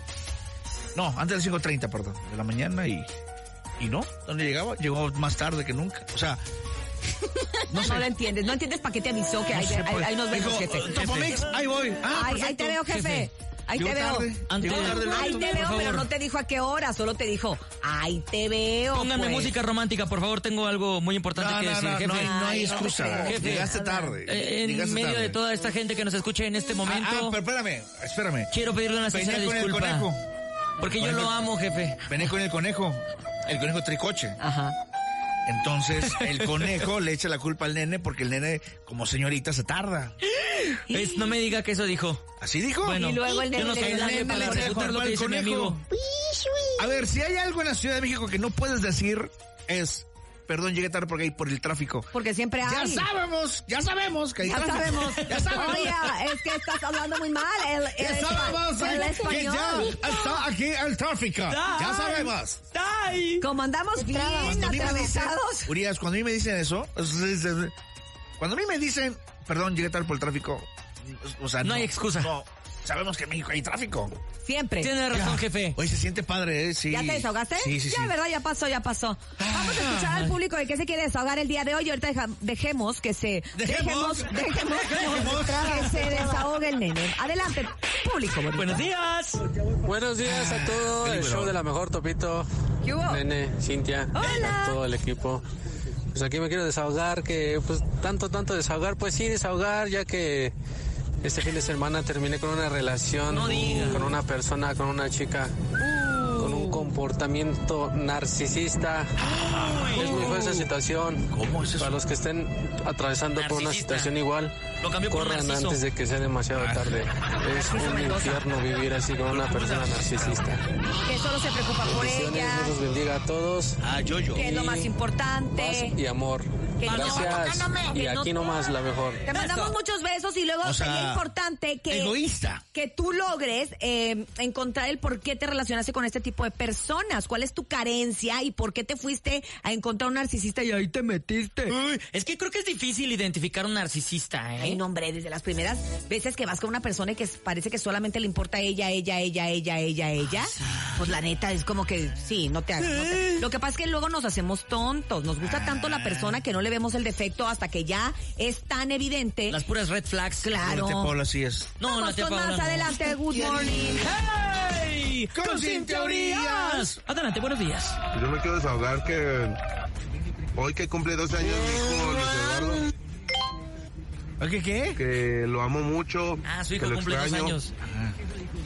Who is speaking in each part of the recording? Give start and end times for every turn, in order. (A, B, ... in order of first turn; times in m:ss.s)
0:01.0-0:03.1 A
0:03.8-0:06.4 A
0:07.7-0:08.1 A
0:07.7-0:11.2 B
0:09.5-0:12.8 A
0:11.0-0:11.4 C
0:12.1-0:19.5 B
0:12.9-0:13.3 C
0:13.8-0:15.9 A
0:14.5-0:16.1 C
0:18.9-0:22.4 C
0:21.4-0:25.4 A
0:22.1-0:24.2 B
0:23.2-0:23.7 C
0:24.2-0:27.4 C
0:26.9-0:28.5 A
0:28.5-0:30.1 C
0:29.1-0:30.2 A
0:30.8-0:32.0 C
0:30.8-0:31.4 A
0:32.1-0:34.4 A
0:34.4-0:34.8 B
0:35.5-0:40.2 A
0:36.2-0:36.8 C
0:40.5-0:42.2 C
0:40.9-0:41.3 B
0:42.4-0:45.8 A
0:42.8-0:45.8 C
0:42.9-0:44.8 B
0:46.8-0:52.1 A
0:52.1-0:53.1 B
0:52.6-0:56.1 A
0:54.4-1:00.2 B
0:55.2-0:55.6 C
0:58.0-1:02.6 A
1:01.5-1:03.4 C
1:03.4-1:05.7 B
1:04.4-1:07.7 A
1:08.4-1:14.2 A
1:11.6-1:12.3 C
1:14.4-1:14.9 B
1:14.8-1:15.8 C
1:15.1-1:18.1 A
1:16.9-1:28.9 B
1:19.4-1:20.3 A
1:23.6-1:26.1 A
1:24.8-1:25.4 C
1:28.6-1:29.4 C
1:29.8-1:32.5 D
1:30.2-1:31.5 A
1:32.8-1:33.2 B
1:33.0-1:35.4 D
1:34.1-1:34.8 B
1:34.2-1:34.5 C
1:36.1-1:40.5 D
1:41.2-1:45.5 D
1:43.3-1:44.1 C
1:46.0-1:46.7 C
1:46.3-1:49.1 D
1:49.2-1:50.6 C
1:49.9-1:54.5 D
1:51.3-1:52.0 A
1:53.3-1:54.2 C
1:54.8-1:55.8 C
1:55.1-2:00.6 D
1:56.6-1:57.1 A
1:57.6-1:58.3 B
1:59.3-2:00.4 A
2:01.0-2:02.8 B
2:01.8-2:03.8 D
2:03.8-2:04.5 A
2:04.3-2:06.0 B
2:04.4-2:04.9 D
2:05.6-2:09.2 D
2:06.8-2:08.4 B
2:06.8-2:07.4 C
2:09.2-2:12.2 B
2:09.3-2:09.7 C
2:10.6-2:11.3 A
2:11.9-2:12.6 A
2:12.7-2:21.8 B
2:21.7-2:24.8 C
2:24.6-2:39.6 B
2:33.0-2:33.4 C
2:35.4-2:36.4 A
2:39.5-2:40.5 C
2:40.4-2:41.1 B
2:40.6-2:41.7 A
2:41.8-2:43.0 C
2:41.9-2:44.1 B
2:43.3-2:43.9 A
2:44.0-2:48.0 C
2:45.3-2:47.0 A
2:48.1-2:49.6 E
2:50.6-2:52.8 E
2:54.4-2:55.0 A
2:55.0-2:57.6 E
2:56.4-2:57.7 C
2:57.8-2:58.2 A